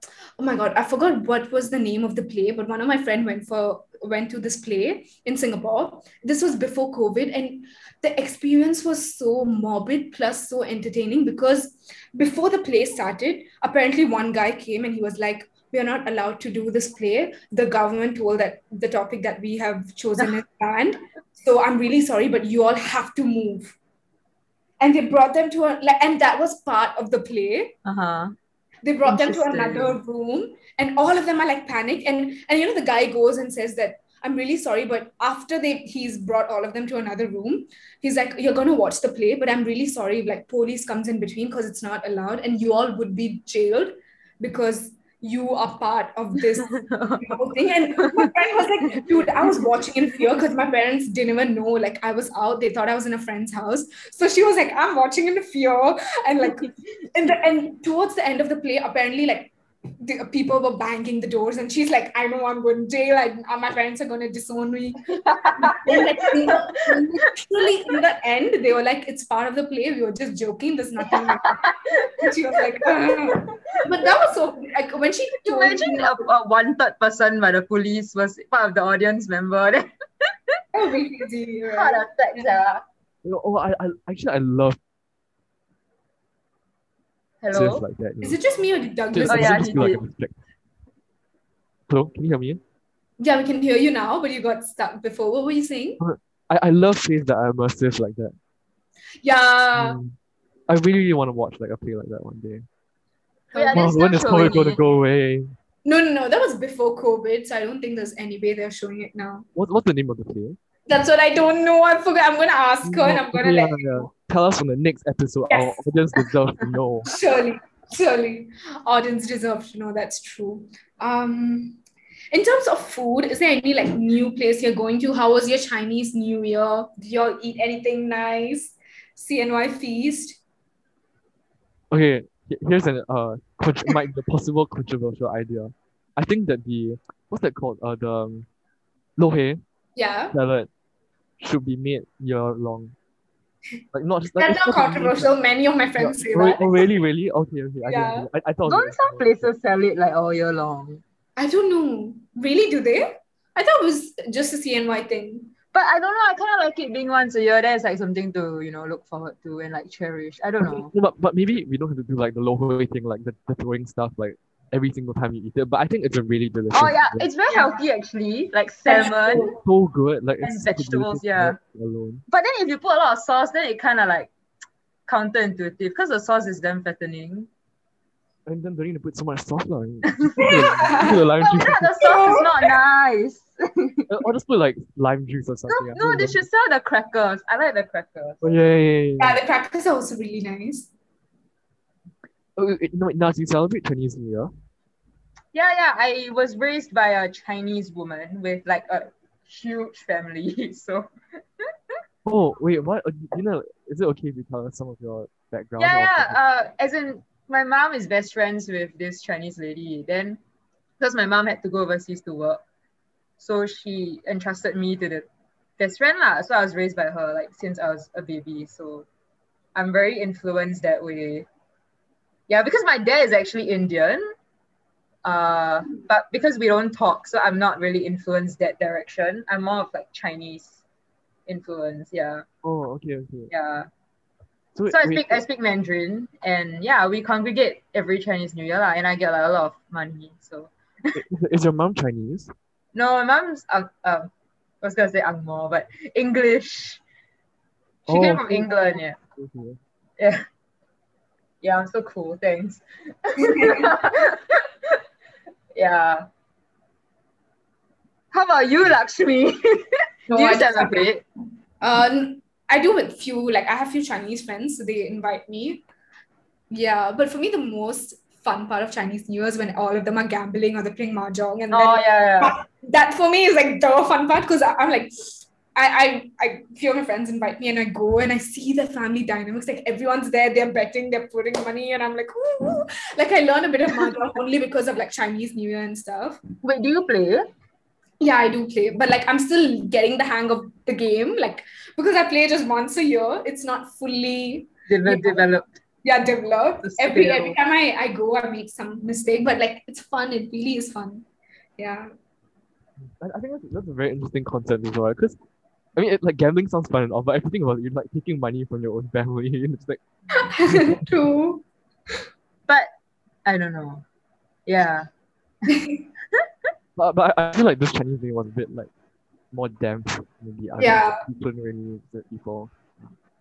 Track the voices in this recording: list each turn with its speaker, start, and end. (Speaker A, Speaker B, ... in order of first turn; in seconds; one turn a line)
Speaker A: 0.4-23.8
Speaker A: 24.8-27.7
Speaker B: 27.9-28.4
Speaker A: 28.9-76.3
Speaker B: 29.1-30.0
Speaker B: 46.6-47.4
Speaker B: 48.0-48.3
Speaker B: 48.9-49.6
Speaker B: 65.1-67.0
Speaker B: 71.1-72.3
Speaker B: 72.8-73.5
Speaker B: 75.5-79.9
Speaker A: 80.7-82.5
Speaker B: 81.7-82.8
Speaker C: 83.2-84.8
Speaker B: 87.4-87.8
Speaker C: 87.5-88.4
Speaker A: 88.2-89.9
Speaker C: 89.1-90.4
Speaker B: 89.3-90.0
Speaker C: 91.9-92.6
Speaker A: 93.2-96.0
Speaker C: 96.0-98.3
Speaker A: 99.2-100.0
Speaker C: 99.8-100.2
Speaker C: 100.7-102.7
Speaker A: 103.5-104.7
Speaker B: 103.5-104.8
Speaker C: 103.7-105.5
Speaker A: 105.8-109.5
Speaker C: 109.6-110.6
Speaker A: 110.9-114.1
Speaker C: 112.8-117.1
Speaker A: 115.5-116.3
Speaker A: 117.0-121.8
Speaker A: 122.3-130.4
Speaker C: 131.9-138.5
Speaker C: 139.2-139.6
Speaker A: 140.0-140.3
Speaker C: 140.3-140.7
Speaker C: 141.4-142.9
Speaker C: 143.9-145.3
Speaker A: 144.4-146.8
Speaker C: 146.0-149.5
Speaker A: 147.8-148.3
Speaker B: 148.7-151.0
Speaker A: 151.4-155.5
Speaker B: 155.7-160.9
Speaker C: 160.6-167.3
Speaker B: 166.7-169.5
Speaker A: 167.5-167.8
Speaker A: 168.9-169.6
Speaker C: 169.3-172.2
Speaker B: 170.4-171.6
Speaker B: 172.3-174.3
Speaker B: 175.1-177.5
Speaker C: 178.5-181.9
Speaker B: 180.1-184.1
Speaker A: 180.4-181.2
Speaker A: 182.0-182.5
Speaker C: 184.1-186.4
Speaker B: 185.7-188.4
Speaker C: 188.4-189.4
Speaker A: 189.2-190.9
Speaker C: 192.6-194.5
Speaker B: 195.5-201.1
Speaker C: 202.3-206.4
Speaker B: 205.8-210.4
Speaker B: 211.0-212.6
Speaker B: 213.4-215.3
Speaker B: 215.8-219.1
Speaker B: 219.8-221.5
Speaker B: 222.5-224.2
Speaker B: 225.2-230.8
Speaker B: 231.5-232.4
Speaker C: 232.6-233.5
Speaker B: 233.5-233.9
Speaker C: 234.8-235.4
Speaker B: 234.9-241.2
Speaker C: 241.2-242.5
Speaker B: 242.9-244.3
Speaker B: 244.8-247.0
Speaker B: 248.1-249.2
Speaker C: 248.1-249.8
Speaker B: 250.2-250.4
Speaker B: 251.6-254.9
Speaker A: 253.4-253.9
Speaker B: 255.8-256.3
Speaker B: 258.3-261.2
Speaker A: 260.3-261.1
Speaker A: 261.8-265.8
Speaker A: 266.7-286.4
Speaker B: 271.7-272.6
Speaker B: 286.6-287.5
Speaker A: 288.2-295.4
Speaker B: 294.9-295.7
Speaker A: 296.0-301.3
Speaker B: 296.8-297.6
Speaker A: 301.8-302.1
Speaker C: 303.0-305.4
Speaker C: 306.0-311.0
Speaker A: 310.5-311.6
Speaker B: 313.4-314.0
Speaker B: 314.7-315.1
Speaker A: 315.7-316.0
Speaker C: 317.0-318.9
Speaker C: 319.5-322.7
Speaker A: 320.8-321.2